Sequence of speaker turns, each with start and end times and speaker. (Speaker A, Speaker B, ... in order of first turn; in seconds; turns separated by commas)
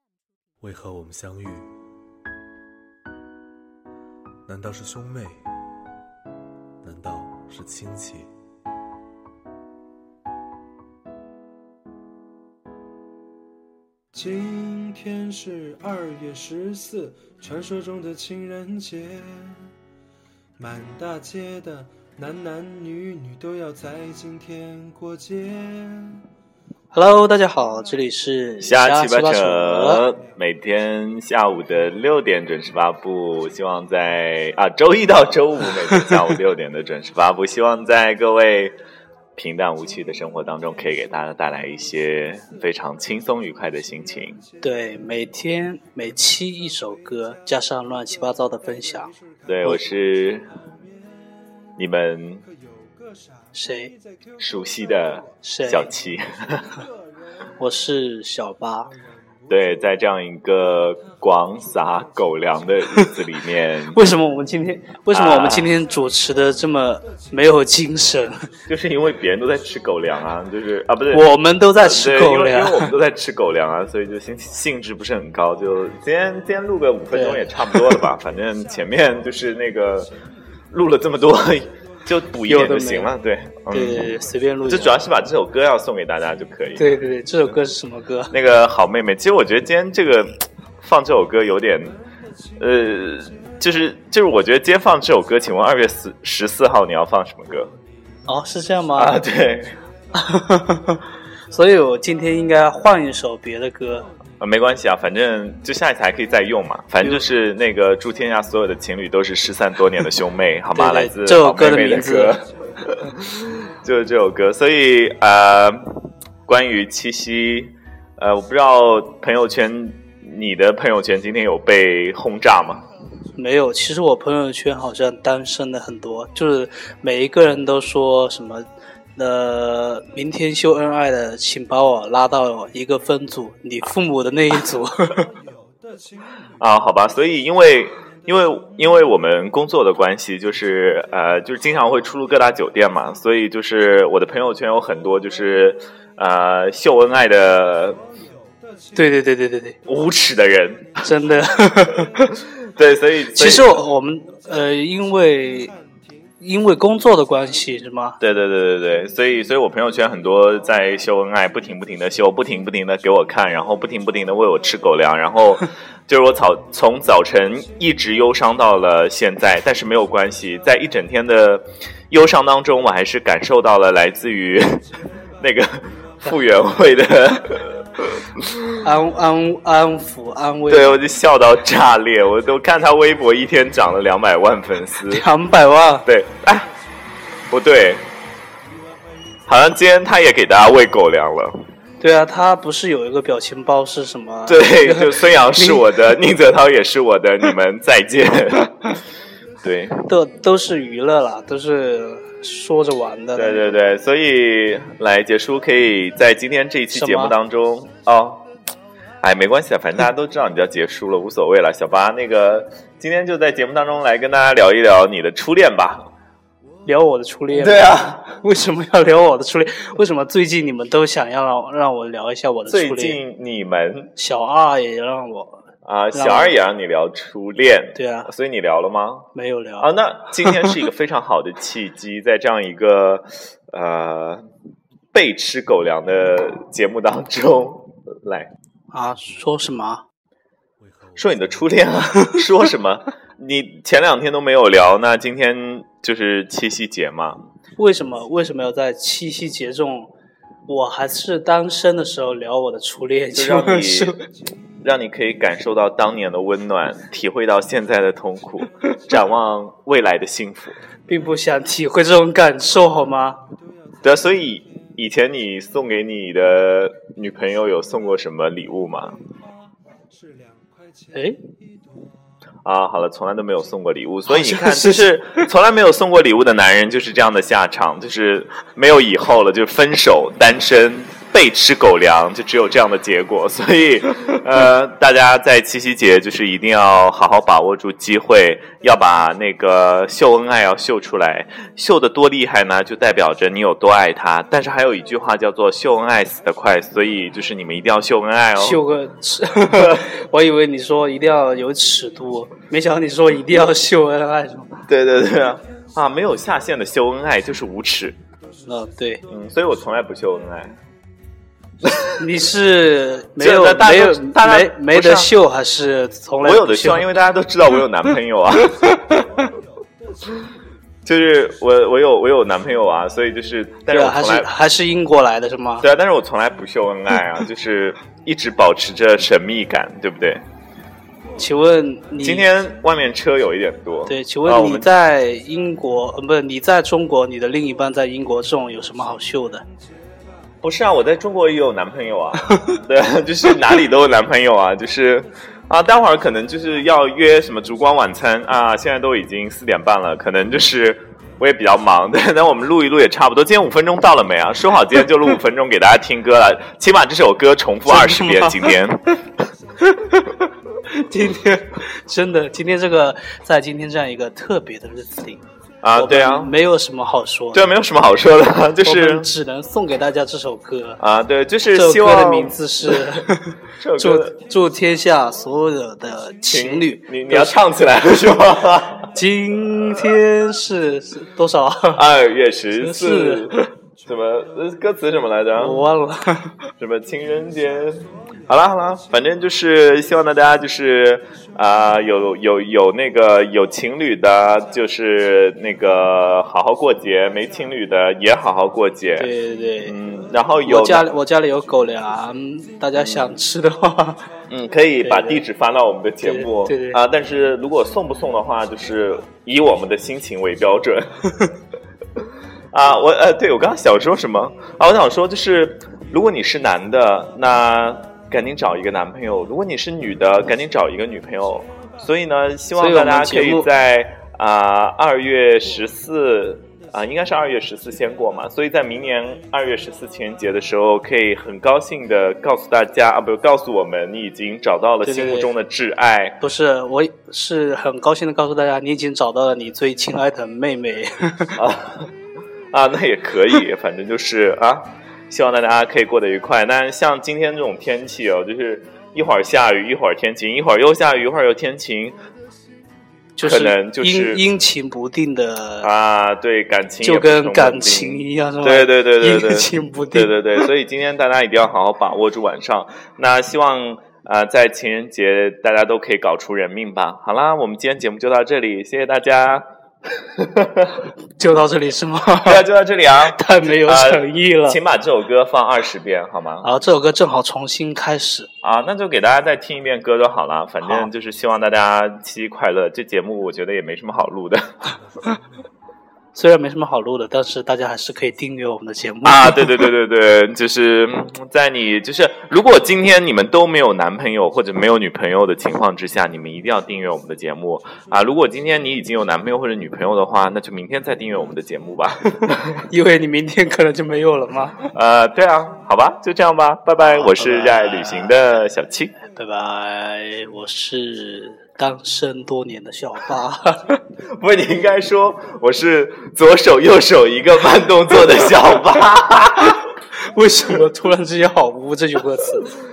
Speaker A: 0.6-1.7, Speaker A: 4.5-5.5, Speaker A: 6.8-8.3, Speaker B: 14.1-19.7, Speaker B: 20.6-26.2, Speaker C: 26.9-30.0, Speaker D: 28.6-38.8, Speaker D: 39.4-44.4, Speaker B: 43.8-45.2, Speaker C: 44.6-49.1, Speaker B: 48.3-51.1, Speaker D: 49.5-50.5, Speaker D: 51.8-52.5, Speaker B: 52.4-55.3, Speaker C: 53.5-53.9, Speaker D: 54.4-56.8, Speaker C: 55.4-55.9, Speaker B: 56.8-57.1, Speaker C: 57.6-58.9, Speaker B: 59.0-60.0, Speaker D: 59.5-64.0, Speaker B: 60.9-62.7, Speaker C: 63.9-68.4, Speaker D: 65.1-65.7, Speaker B: 65.8-68.7, Speaker D: 68.7-80.1, Speaker B: 69.2-70.0, Speaker C: 71.1-72.9, Speaker C: 77.1-78.0, Speaker D: 80.7-84.1, Speaker C: 82.5-83.1, Speaker C: 83.7-85.0, Speaker D: 84.6-86.9, Speaker C: 86.8-88.3, Speaker D: 88.3-92.0, Speaker B: 92.0-93.6, Speaker D: 92.6-97.7, Speaker B: 97.7-98.2, Speaker C: 98.2-99.2, Speaker D: 99.0-99.8, Speaker C: 100.1-101.0, Speaker C: 101.5-104.1, Speaker D: 104.4-122.8, Speaker C: 110.7-112.4, Speaker C: 123.3-135.2, Speaker B: 135.0-136.5, Speaker D: 136.6-148.0, Speaker B: 137.2-139.1, Speaker B: 147.3-149.2, Speaker C: 148.9-149.8, Speaker D: 149.8-151.0, Speaker C: 151.0-152.3, Speaker D: 152.4-153.8, Speaker C: 153.3-155.7, Speaker B: 154.4-156.4, Speaker C: 156.4-158.2, Speaker B: 157.3-157.7, Speaker D: 158.2-178.8, Speaker B: 163.4-164.7, Speaker B: 174.9-177.8, Speaker C: 178.8-181.0, Speaker D: 180.7-185.2, Speaker C: 185.1-186.1, Speaker D: 186.0-186.7, Speaker D: 187.5-188.1, Speaker B: 188.7-189.5, Speaker D: 189.5-191.6, Speaker C: 192.0-196.0, Speaker D: 194.5-198.9, Speaker D: 199.6-200.0, Speaker C: 200.0-203.7, Speaker D: 203.3-208.4, Speaker C: 206.9-207.3, Speaker D: 209.2-216.1, Speaker C: 216.8-223.2, Speaker D: 217.5-218.2, Speaker D: 222.7-224.1, Speaker C: 224.1-226.6, Speaker D: 225.8-229.3, Speaker C: 227.9-228.3, Speaker C: 229.3-230.7, Speaker D: 229.8-234.4, Speaker D: 235.1-238.5, Speaker C: 238.9-240.0, Speaker D: 241.2-247.4, Speaker C: 247.8-250.1, Speaker C: 250.7-254.2, Speaker D: 253.3-254.2, Speaker D: 254.8-260.8, Speaker C: 261.1-263.4, Speaker B: 263.5-264.9, Speaker D: 264.0-269.2, Speaker B: 269.2-272.1, Speaker D: 272.6-298.8, Speaker C: 274.3-275.4, Speaker C: 298.6-304.7, Speaker D: 299.7-300.1, Speaker D: 304.9-308.2, Speaker C: 308.6-309.2, Speaker D: 309.3-310.8, Speaker D: 311.8-312.2, Speaker C: 312.1-317.2, Speaker D: 313.4-315.3, Speaker D: 316.4-319.1, Speaker D: 321.0-324.5, Speaker C: 323.9-325.9, Speaker D: 325.8-330.4, Speaker C: 331.4-332.5, Speaker D: 332.2-334.9, Speaker C: 334.1-339.6, Speaker B: 339.6-340.5, Speaker D: 340.6-359.2, Speaker C: 342.5-342.8, Speaker C: 357.8-358.8, Speaker C: 359.9-360.2, Speaker C: 360.9-365.4, Speaker D: 365.8-366.5, Speaker C: 365.9-367.7, Speaker D: 367.5-369.3, Speaker C: 368.8-371.0, Speaker D: 371.0-373.0, Speaker C: 371.7-377.6, Speaker D: 373.8-374.3, Speaker D: 376.5-379.1, Speaker C: 379.1-382.0, Speaker D: 381.9-385.9, Speaker C: 382.8-383.5, Speaker B: 384.0-384.9, Speaker C: 385.6-386.5, Speaker D: 386.8-399.3, Speaker B: 387.2-389.2, Speaker C: 399.2-400.0, Speaker D: 399.8-401.1, Speaker C: 400.6-404.3, Speaker D: 402.9-403.4, Speaker D: 404.5-411.3, Speaker C: 405.0-405.4, Speaker C: 406.2-407.0, Speaker D: 412.7-436.4, Speaker B: 421.6-422.0, Speaker C: 422.8-423.7, Speaker B: 426.6-428.3, Speaker C: 435.0-435.5, Speaker C: 436.4-441.6, Speaker D: 441.6-442.1, Speaker D: 442.7-452.1, Speaker C: 453.4-455.9, Speaker D: 453.4-454.4, Speaker D: 455.8-469.6, Speaker C: 457.0-460.7, Speaker D: 470.4-471.0, Speaker C: 471.4-472.6, Speaker D: 472.4-476.7, Speaker C: 473.3-474.8, Speaker C: 476.6-478.5, Speaker D: 478.6-484.6, Speaker C: 480.8-481.1, Speaker C: 486.3-489.9, Speaker D: 489.2-502.8, Speaker C: 502.2-504.9, Speaker D: 504.9-509.1, Speaker C: 507.0-508.4, Speaker C: 509.3-514.0, Speaker D: 514.3-519.8, Speaker C: 519.6-522.7